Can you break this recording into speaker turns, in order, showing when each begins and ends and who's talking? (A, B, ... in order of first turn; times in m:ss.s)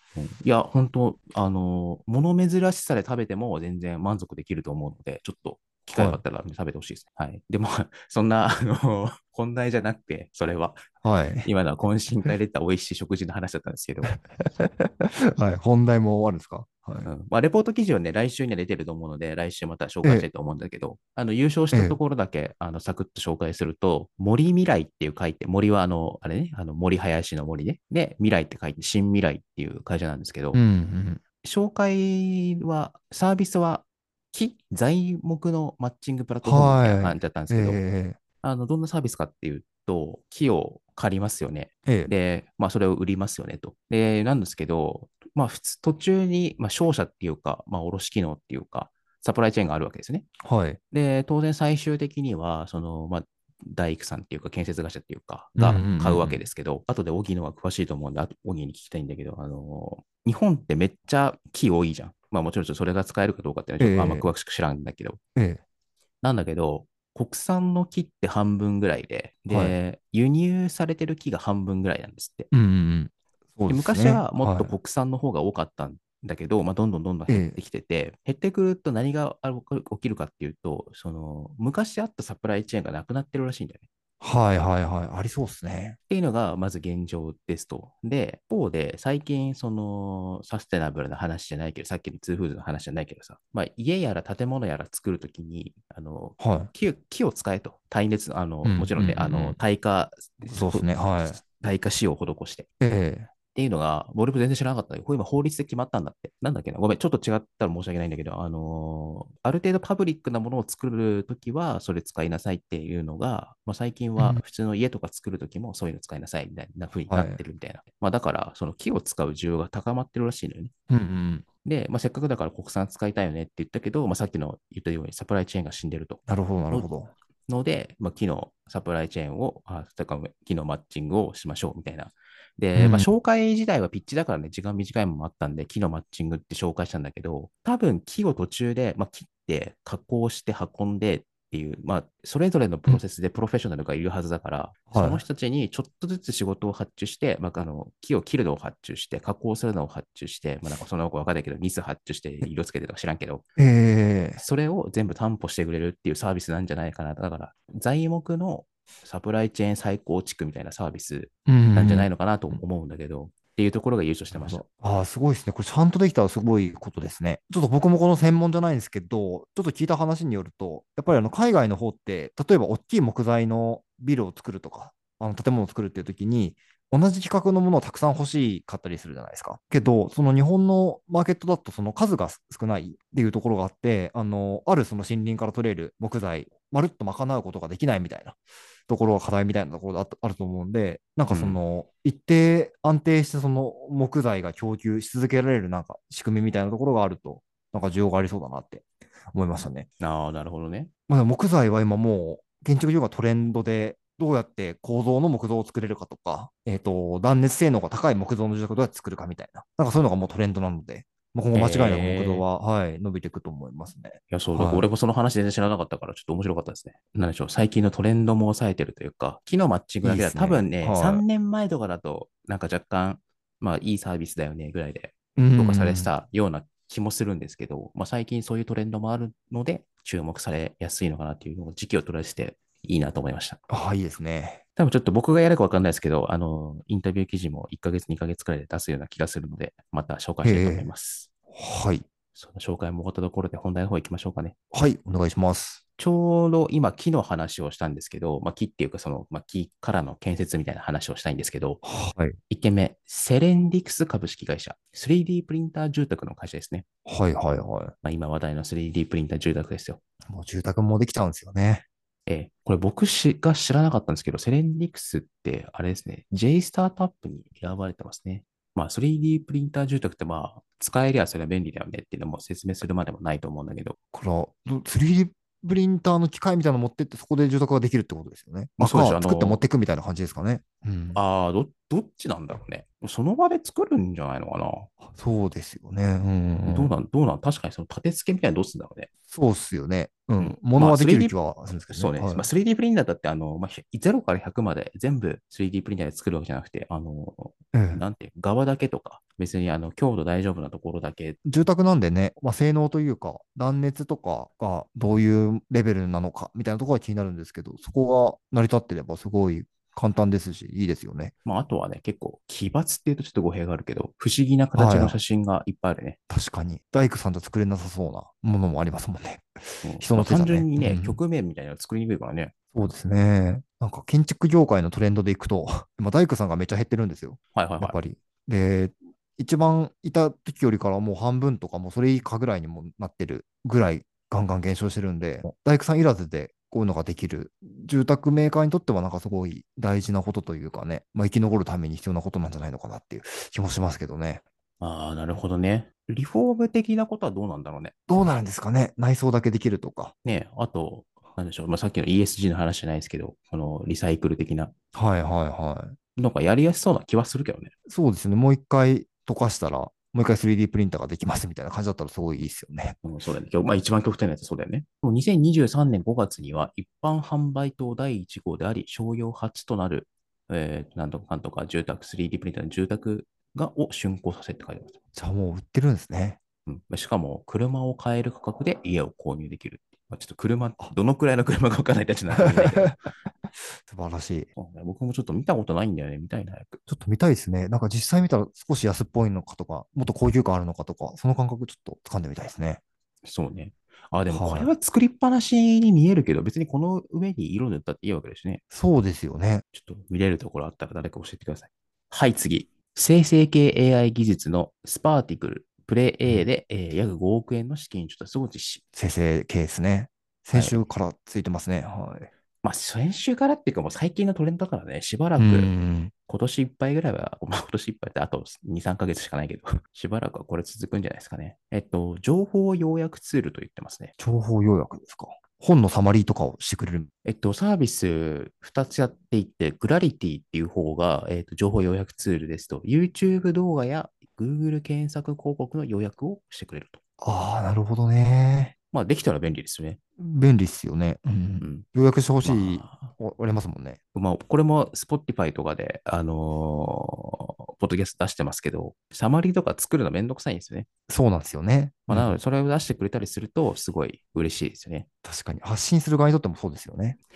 0:00.2-0:10.8 A
0:05.9-0:06.2 B
0:11.0-0:11.5 B
0:11.4-0:14.2 A
0:14.1-0:17.1 B
0:17.1-0:30.6 A
0:20.0-0:20.3 B
0:21.7-0:22.0 B
0:30.5-0:31.2 B
0:31.4-0:37.8 A
0:36.4-0:38.2 B
0:38.4-0:50.3 A
0:41.9-0:42.1 B
0:50.4-0:50.8 B
0:50.9-1:05.2 A
0:55.6-0:56.5 B
1:03.8-1:04.3 B
1:05.4-1:05.6 B
1:06.2-1:12.5 A
1:09.5-1:09.8 B
1:12.5-1:14.8 B
1:13.7-1:23.9 A
1:17.3-1:17.6 B
1:24.2-1:26.0 B
1:26.1-1:42.7 A
1:36.4-1:36.7 B
1:38.6-1:39.6 B
1:40.5-1:41.4 B
1:42.8-1:43.3 B
1:43.6-2:00.7 A
1:54.2-1:54.4 B
1:57.1-1:57.4 B
2:00.9-2:01.4 B
2:01.6-2:06.9 A
2:06.3-2:07.1 B
2:07.5-2:33.5 A
2:12.8-2:13.1 B
2:24.9-2:25.2 B
2:33.6-2:34.4 B
2:34.4-2:44.6 A
2:41.5-2:42.6 B
2:44.3-3:08.4 B
3:08.9-3:19.9 B
3:11.3-3:11.6 A
3:20.0-3:20.9 A
3:21.1-3:34.9 B
3:31.6-3:32.5 A
3:34.3-3:53.6 A
3:40.0-3:41.2 B
3:45.4-3:46.1 B
3:53.7-3:54.6 B
3:54.8-4:01.3 A
4:00.4-4:00.9 B
4:01.5-4:02.0 B
4:02.4-4:04.6 A
4:04.7-4:05.8 B
4:06.0-4:11.8 A
4:11.8-4:12.4 B
4:12.5-4:16.8 A
4:17.1-4:17.9 B
4:18.0-4:20.0 A
4:20.3-4:21.8 B
4:22.3-4:34.0 A
4:34.1-4:41.2 B
4:38.8-4:39.6 A
4:41.1-4:44.9 A
4:45.1-4:47.0 B
4:46.7-4:49.1 A
4:49.3-4:52.5 B
4:50.4-4:51.4 A
4:51.9-5:01.4 A
4:57.7-4:58.0 B
5:01.4-5:11.3 B
5:11.4-5:16.2 A
5:14.7-5:15.2 B
5:16.3-5:21.2 B
5:19.8-5:22.5 A
5:22.7-5:44.4 B
5:27.5-5:28.0 A
5:44.8-5:47.9 A
5:48.1-5:50.1 B
5:50.2-5:54.7 A
5:55.0-5:56.0 B
5:56.2-5:57.7 A
5:57.9-6:03.0 B
6:03.0-6:15.0 A
6:15.2-6:16.4 B
6:16.7-6:23.0 A
6:22.4-6:23.0 B
6:23.9-6:24.5 B
6:24.6-6:26.8 A
6:26.9-6:32.8 B
6:33.2-6:38.6 A
6:34.3-6:34.7 B
6:38.7-6:39.6 B
6:39.7-6:48.8 A
6:48.9-6:52.3 B
6:50.5-6:50.9 A
6:52.6-6:55.7 A
6:55.4-6:56.1 B
6:56.3-7:04.1 A
7:04.2-7:07.1 B
7:07.2-7:17.0 A
7:17.2-7:18.7 B
7:18.9-7:20.0 A
7:20.2-7:24.0 B
7:21.6-7:21.9 A
7:22.4-7:23.1 A
7:24.1-7:30.9 A
7:31.1-7:32.4 B
7:32.1-7:35.1 A
7:35.2-7:37.2 B